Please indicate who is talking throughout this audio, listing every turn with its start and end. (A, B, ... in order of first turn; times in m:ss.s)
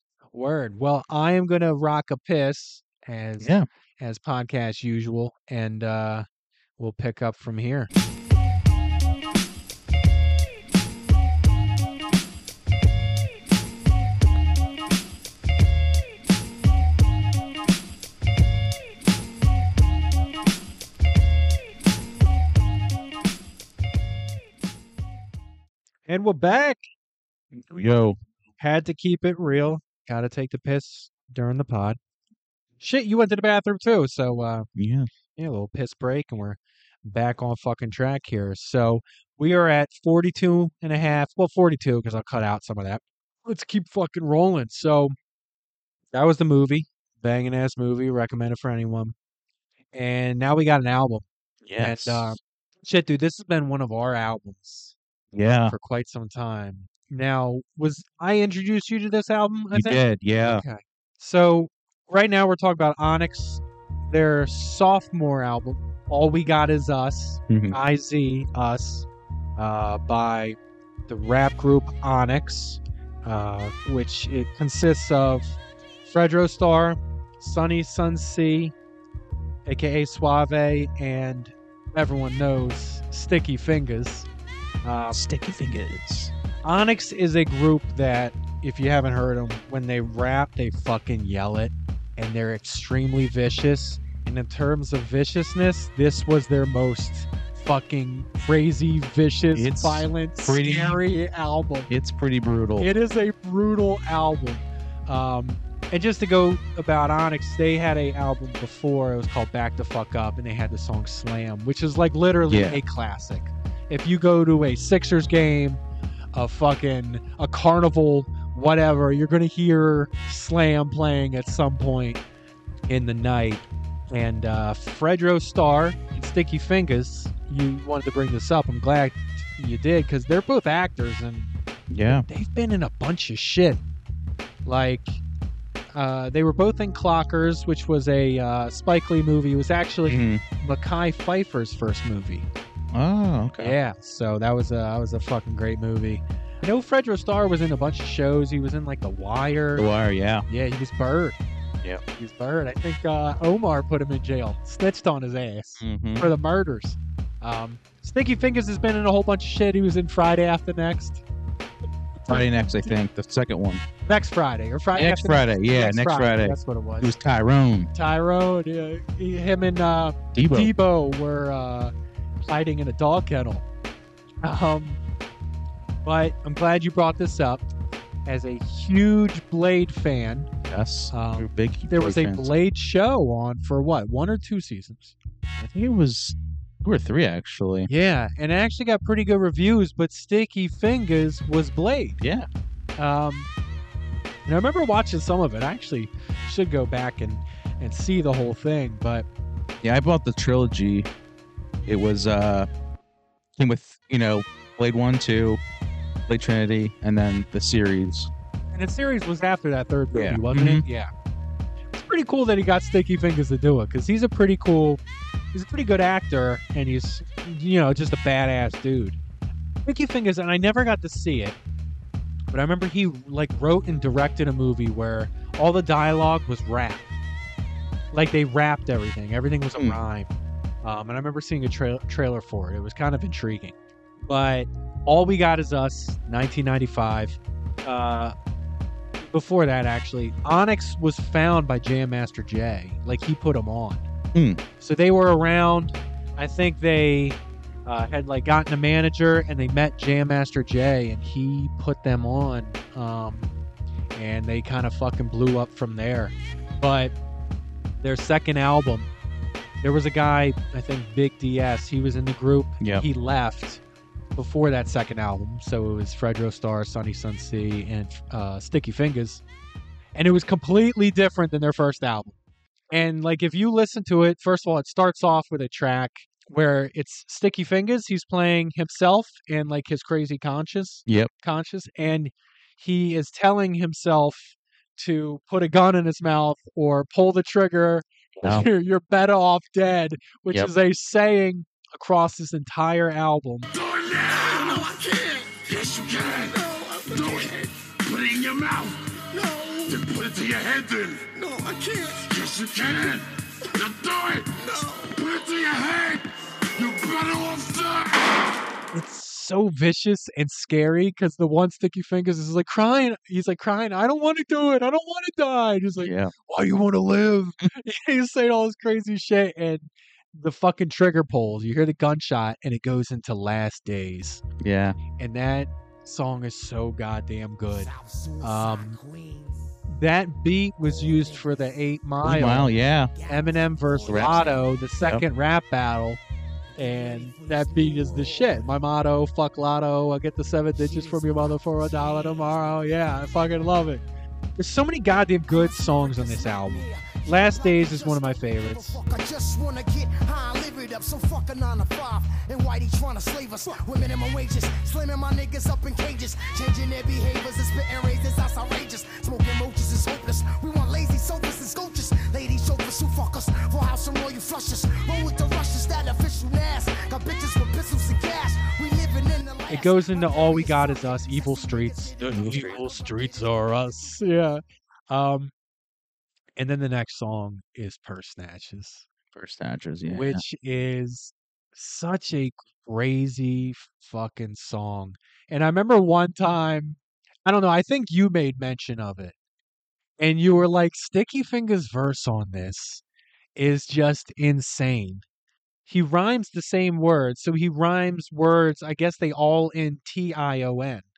0:00.3-0:06.2 A
0:03.4-0:03.6 B
0:06.8-0:07.9 A
0:26.1-0:26.8 A
0:27.5-0:28.2 B
0:28.6-0:32.0 A
0:32.8-0:34.7 A
0:34.8-0:35.1 B
0:35.4-0:45.1 A
0:46.1-0:49.1 A
0:49.9-0:51.2 A
0:51.6-0:52.4 B
0:51.8-0:54.9 A
0:55.3-0:55.7 B
0:55.7-1:09.0 A
0:59.7-1:00.6 B
1:07.5-1:07.8 B
1:09.6-1:10.6 A
1:11.1-1:15.5 A
1:16.0-1:18.7 A
1:19.6-1:24.3 A
1:24.8-1:25.2 A
1:25.1-1:26.3 B
1:26.6-1:41.9 A
1:39.5-1:41.0 B
1:41.9-1:42.9 B
1:42.8-1:55.8 A
1:52.5-1:52.8 B
1:56.3-2:02.2 A
2:02.9-2:11.5 A
2:11.9-2:12.2 B
2:12.1-2:13.8 A
2:14.6-2:15.2 A
2:15.9-2:22.5 A
2:20.1-2:20.4 B
2:22.9-2:23.8 B
2:23.6-2:29.8 A
2:29.8-2:30.4 B
2:30.5-2:31.4 A
2:32.1-2:41.2 A
2:35.8-2:36.3 B
2:42.2-2:42.9 A
2:42.3-2:43.8 B
2:44.0-2:47.2 A
2:44.9-2:47.9 B
2:47.9-2:51.9 A
2:50.3-2:50.7 B
2:52.4-2:53.6 A
2:54.4-2:55.0 A
2:56.0-2:57.6 A
2:58.2-3:00.5 A
3:00.7-3:02.5 B
3:01.1-3:05.1 A
3:05.6-3:07.9 B
3:07.9-3:12.2 A
3:12.2-3:12.5 B
3:13.0-3:13.5 A
3:14.4-3:19.3 A
3:19.8-3:21.1 B
3:21.8-3:22.7 B
3:23.6-3:25.6 B
3:26.3-3:28.3 B
3:28.7-3:31.1 A
3:30.1-3:30.8 B
3:31.9-3:35.0 A
3:35.5-3:39.2 A
3:39.8-3:41.6 A
3:42.5-3:47.0 A
3:48.1-3:50.3 A
3:50.8-3:53.7 A
3:54.2-3:58.3 A
3:59.2-4:04.0 A
4:04.3-4:04.6 B
4:04.8-4:13.5 A
4:14.1-4:17.1 A
4:18.0-4:19.1 A
4:19.8-4:23.8 A
4:22.8-4:23.0 B
4:24.4-4:29.4 A
4:30.1-4:32.3 A
4:32.9-4:53.7 A
4:48.4-4:48.7 B
4:53.8-4:59.0 C
4:54.4-4:54.8 D
4:56.4-4:57.5 D
4:59.3-5:00.0 D
4:59.9-5:03.2 C
5:01.4-5:02.2 D
5:03.8-5:06.2 C
5:06.8-5:08.0 C
5:08.9-5:24.4 A
5:16.0-5:16.3 B
5:24.6-5:25.0 B
5:25.2-5:27.9 A
5:27.7-5:29.7 D
5:28.4-5:29.0 A
5:29.9-5:32.7 A
5:30.8-5:31.9 D
5:32.2-5:33.1 B
5:32.6-5:35.0 D
5:33.3-5:36.2 A
5:34.1-5:34.4 B
5:36.7-5:38.8 D
5:36.8-5:44.0 A
5:40.7-5:43.6 D
5:44.6-5:49.0 A
5:45.4-6:14.3 D
6:09.7-6:15.5 A
6:12.2-6:12.8 B
6:16.6-6:19.0 A
6:19.3-6:20.4 B
6:20.1-6:29.3 A
6:30.2-6:33.0 A
6:33.6-6:35.2 A
6:35.8-6:41.1 A